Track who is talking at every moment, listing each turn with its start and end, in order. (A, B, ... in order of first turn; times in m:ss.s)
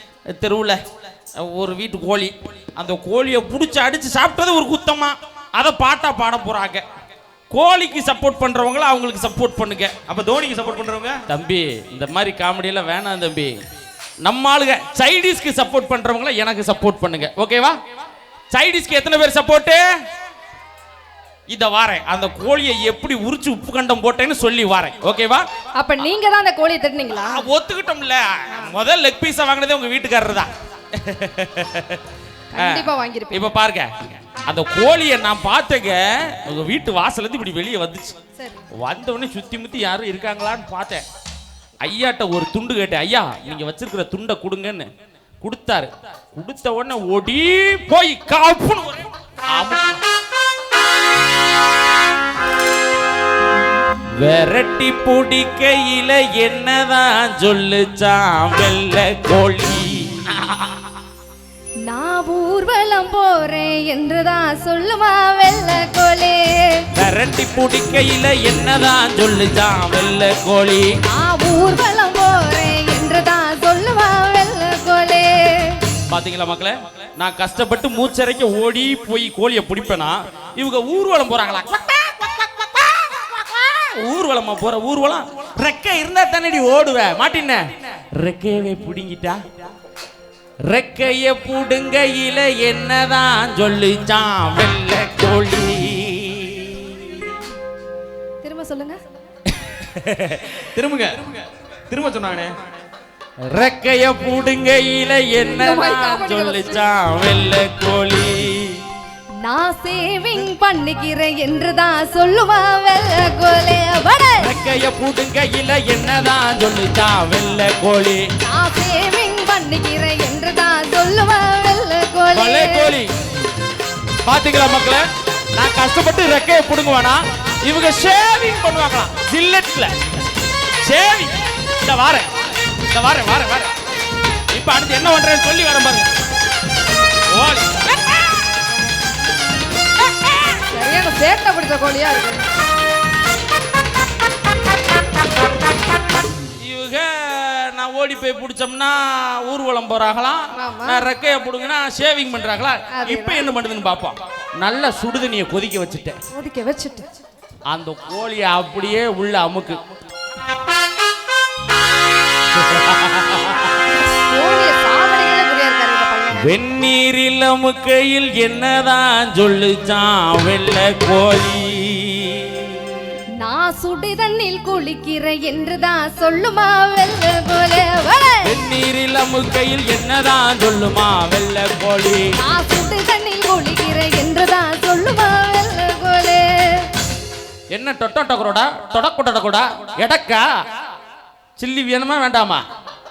0:00.3-0:00.8 A
0:01.4-0:06.8 A
0:07.5-0:09.9 A
0:10.1-0:11.2 B
0:11.3-0:13.5 A
0:14.2-0:17.8 A
0:18.5-0:19.8 A
0:21.5-0:25.4 A
0:25.8-0:27.5 C
0:27.1-0:32.0 A
0:32.5-0:33.4 C
0:32.6-0:38.2 A
0:38.4-0:38.6 C
0:38.7-0:41.0 A
0:41.8-0:44.9 A
0:45.4-0:50.0 A
0:54.2-1:00.8 A
1:01.9-1:06.8 C
1:07.0-1:10.9 A
1:11.1-1:15.8 C
1:16.0-1:29.4 A
1:30.7-1:37.3 A
1:38.4-1:39.0 C
1:39.6-1:40.6 A
1:40.7-1:42.5 B
1:43.5-1:48.8 A
1:45.4-1:46.8 C
1:49.4-1:54.5 C
1:54.4-1:58.3 A
1:58.4-2:02.9 C
2:02.3-2:03.1 A
2:04.2-2:05.0 A
2:05.6-2:09.9 A
2:10.8-2:13.7 A
2:14.5-2:16.1 A
2:17.3-2:18.4 A
2:20.7-2:22.4 C
2:26.4-2:36.2 A
2:30.6-2:31.0 C
2:32.9-2:33.4 C
2:36.3-2:37.1 C
2:37.7-2:39.8 A
2:42.5-2:43.8 A
2:44.2-2:46.6 C
2:46.3-2:52.9 A
2:53.4-2:58.6 C
2:58.4-3:02.3 A
3:02.4-3:06.9 C
3:07.7-3:10.5 A
3:11.6-3:12.6 A